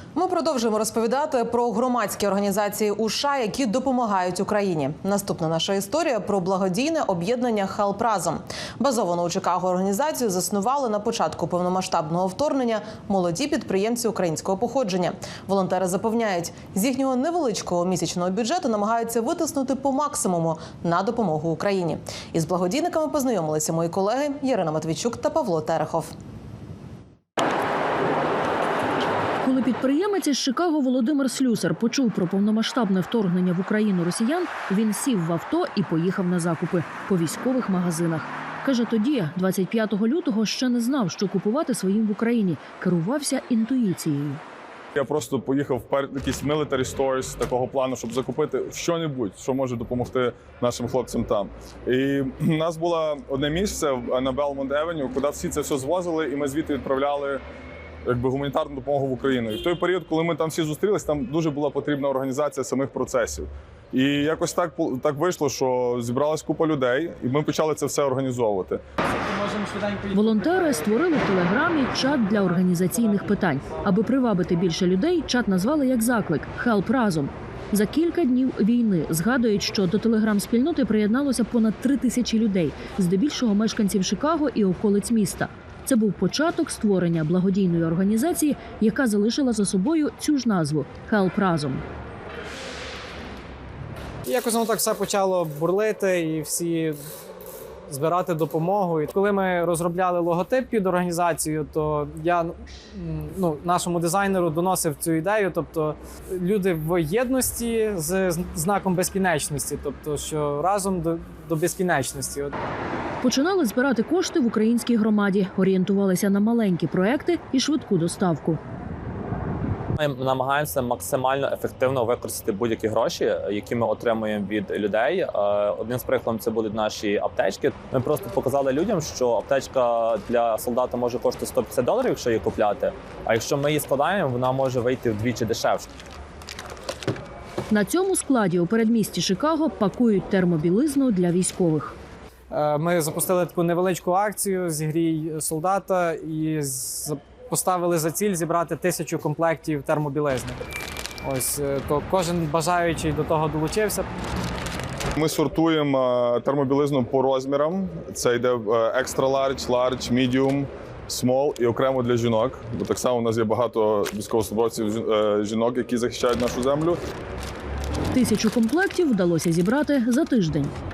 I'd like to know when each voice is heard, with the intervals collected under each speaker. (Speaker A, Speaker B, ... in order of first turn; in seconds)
Speaker A: 0.2-26.1
Speaker B: 29.4-44.4, 70.1-91.8, 113.2-118.6, 137.7-142.0, 168.1-170.7
Speaker C: 44.9-57.4, 58.0-68.8, 155.2-167.0
Speaker D: 69.4-70.1, 94.2-97.0, 97.9-112.5, 142.5-150.6, 151.2-154.1
Speaker E: 120.0-135.9